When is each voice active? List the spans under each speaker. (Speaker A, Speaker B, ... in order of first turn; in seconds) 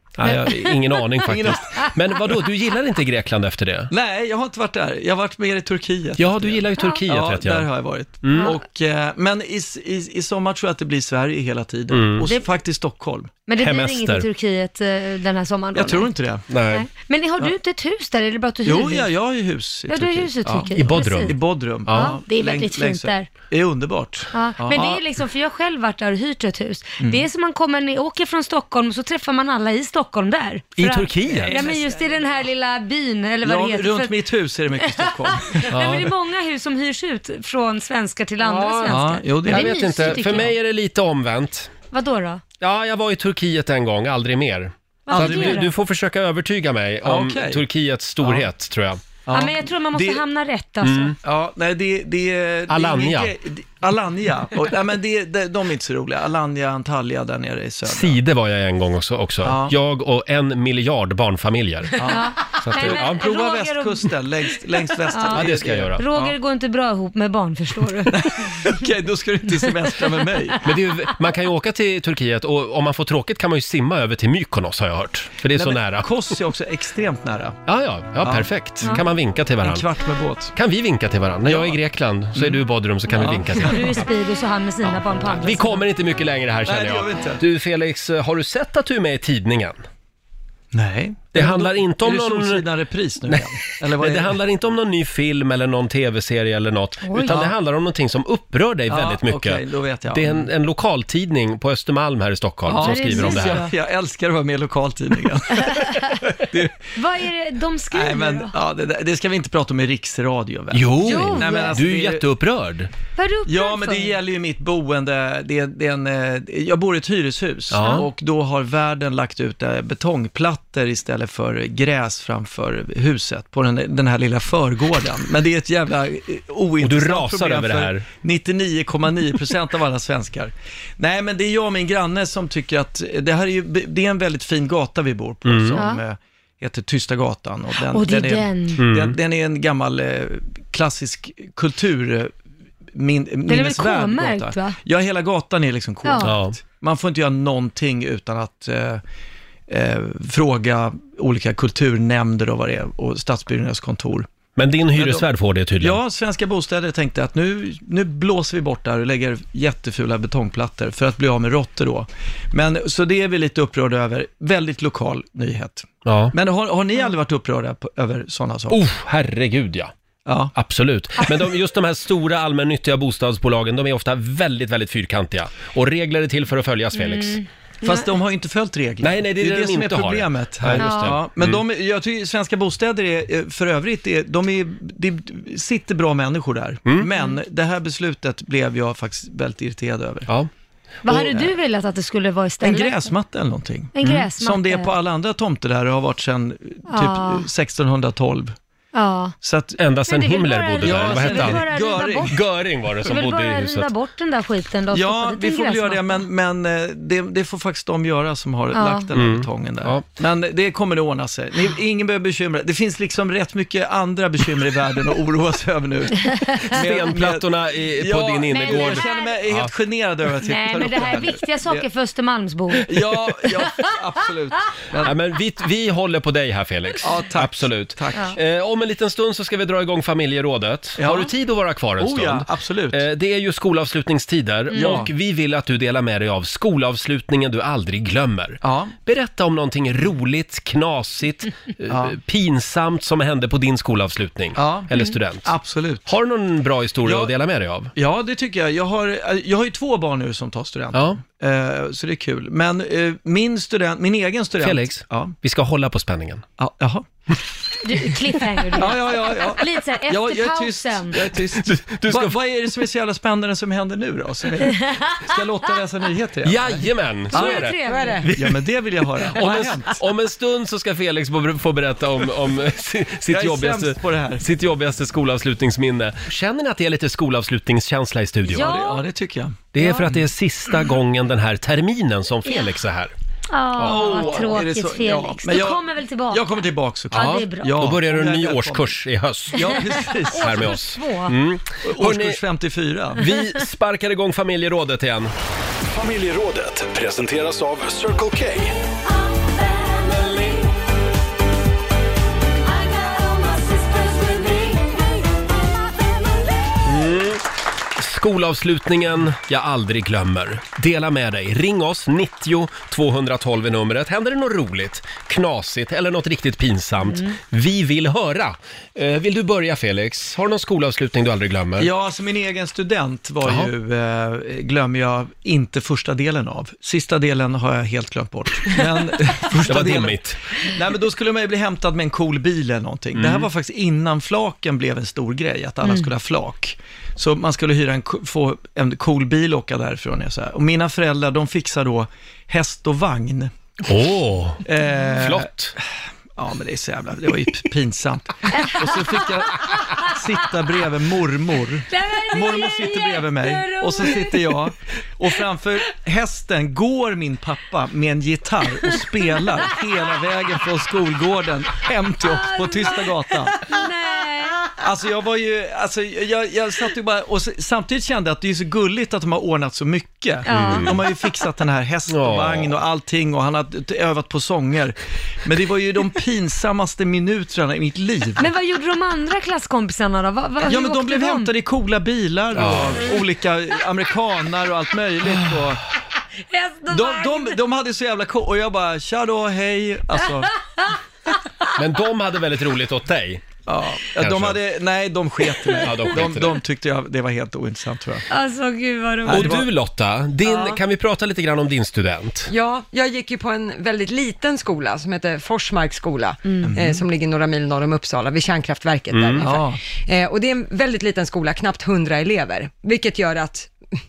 Speaker A: 0.2-3.9, 6.2-7.7, 8.2-8.6, 11.9-12.3, 13.6-14.2, 16.5-16.9, 20.7-22.2, 30.8-31.6, 35.7-36.1, 38.4-41.7, 42.6-49.0, 50.8-51.2, 52.7-53.3, 57.9-62.0, 62.6-63.2, 65.3-66.0, 70.6-76.1, 77.7-79.9, 80.5-83.9, 85.4-89.8, 91.3-92.7, 93.3-103.6, 110.7-112.9, 117.7-118.1, 126.8-128.1, 135.4-135.8, 138.8-139.2, 146.2-146.6, 154.6-156.0, 166.1-166.3, 168.7-169.9, 170.5-177.4, 179.0-181.6, 199.8-203.9, 209.1-210.1, 216.7-219.7, 225.0-245.5, 246.1-247.9, 250.9-251.2, 254.6-256.4, 261.6-262.4, 266.4-267.8, 269.4-278.7, 279.7-283.1, 283.8-284.5, 287.1-292.4, 293.1-295.3, 306.9-307.4, 308.0-321.9, 323.4-323.7, 329.6-330.4, 333.1-333.5, 343.9-344.6, 345.2-345.8, 370.5-371.0, 372.1-372.7, 382.6-383.0, 391.8-393.5, 394.2-394.6, 395.8-396.6, 399.3-402.5, 409.1-409.5
Speaker B: 0.2-1.9, 13.5-19.1, 19.9-23.3, 24.3-34.2, 34.8-40.5, 41.9-42.4, 45.1-45.7, 49.3-51.2, 62.0-64.2, 65.1-68.7, 83.6-85.8, 97.1-97.3, 102.8-103.7, 107.0-108.5, 111.0-111.8, 113.2-114.2, 117.8-118.1, 135.8-136.0, 137.9-138.8, 143.5-144.8, 146.0-146.3, 176.9-178.1, 180.8-181.2, 191.1-193.1, 193.9-194.9, 196.9-197.5, 198.9-199.3, 200.1-202.3, 203.1-206.2, 208.7-209.1, 218.5-219.4, 220.4-223.8, 234.7-235.1, 257.8-261.2, 267.3-268.2, 278.5-279.1, 279.8-280.1, 283.5-287.8, 289.6-291.3, 299.4-300.7, 302.8-305.2, 317.0-317.4, 335.8-336.1, 348.6-349.4, 351.9-354.7, 362.2-364.7, 370.5-371.3, 378.4-381.5, 386.5-387.6, 398.3-399.5
Speaker C: 1.3-1.9, 3.9-13.3, 15.7-16.4, 18.6-25.0, 27.0-27.2, 31.2-32.4, 33.4-36.1, 38.9-40.4, 45.1-45.6, 47.0-47.6, 48.2-48.5, 49.3-50.2, 51.2-58.2, 59.4-59.8, 62.0-66.3, 68.1-70.6, 75.5-77.6, 78.2-79.0, 79.6-80.5, 81.5-81.8, 82.3-82.6, 83.1-84.0, 86.7-87.4, 90.7-94.4, 97.2-97.5, 98.9-100.5, 102.7-106.9, 107.9-112.3, 113.5-142.3, 142.9-149.0, 149.7-154.3, 154.9-155.3, 155.8-168.8, 170.3-170.5, 177.8-190.3, 191.1-191.6, 192.6-198.6, 199.4-199.8, 200.8-202.4, 204.9-221.9, 222.8-225.1, 227.0-228.4, 231.0-231.3, 232.0-233.1, 234.7-235.1, 238.6-238.9, 241.9-242.2, 244.6-246.1, 247.0-247.3, 247.9-255.4, 256.6-257.1, 258.7-267.7, 268.3-270.0, 273.3-274.4, 278.5-280.2, 283.8-289.0, 289.5-290.6, 291.8-293.2, 321.8-343.5, 344.6-345.8, 346.4-363.7, 364.8-378.5, 380.6-385.8, 386.9-390.5, 393.7-398.3, 399.2-399.7, 406.6-407.0, 409.4-409.8
Speaker D: 267.9-268.3, 400.4-400.8, 402.5-413.7
Speaker E: 296.0-298.7